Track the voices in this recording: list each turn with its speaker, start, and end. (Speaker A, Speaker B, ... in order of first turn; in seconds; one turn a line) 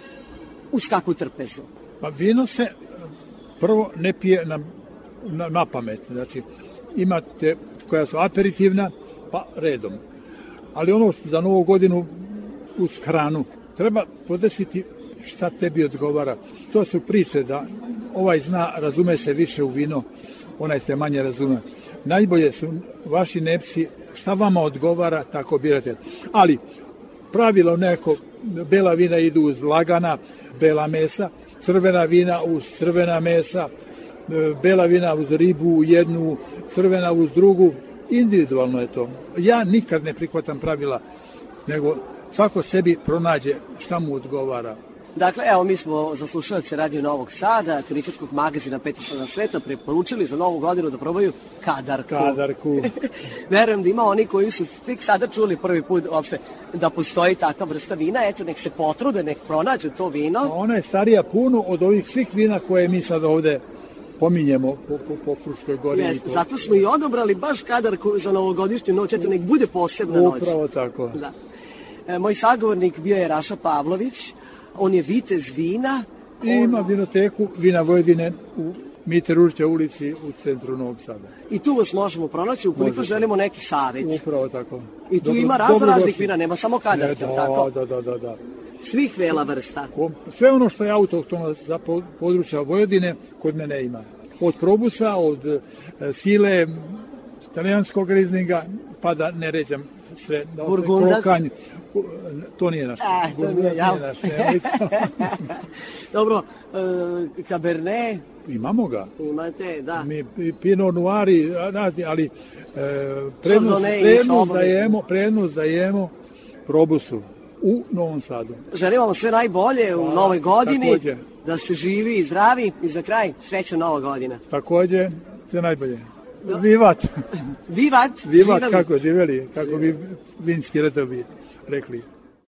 Speaker A: 0.7-1.7
Speaker B: 2.0-2.8
Speaker B: 3.6-4.7
Speaker B: 5.2-10.0
Speaker B: 10.7-20.1
Speaker B: 20.6-26.6
Speaker B: 27.3-33.7
Speaker B: 34.3-41.0
Speaker B: 41.6-44.8
Speaker A: 45.1-60.5
Speaker B: 52.1-52.9
Speaker B: 60.4-63.6
Speaker B: 64.2-66.8
Speaker A: 65.9-70.6
Speaker B: 70.1-71.2
Speaker A: 72.1-76.8
Speaker B: 76.4-81.3
Speaker A: 81.5-84.2
Speaker B: 82.8-83.3
Speaker B: 84.0-86.3
Speaker A: 85.1-87.7
Speaker B: 86.9-88.4
Speaker A: 88.8-89.9
Speaker B: 89.9-97.0
Speaker B: 97.5-105.3
Speaker A: 100.6-101.4
Speaker A: 103.0-108.3
Speaker B: 108.4-109.1
Speaker A: 109.2-110.1
Speaker B: 110.0-116.1
Speaker A: 113.4-114.9
Speaker B: 116.7-118.6
Speaker A: 118.7-124.4
Speaker B: 119.9-121.2
Speaker B: 124.5-127.1
Speaker A: 127.7-128.9
Speaker B: 128.2-132.1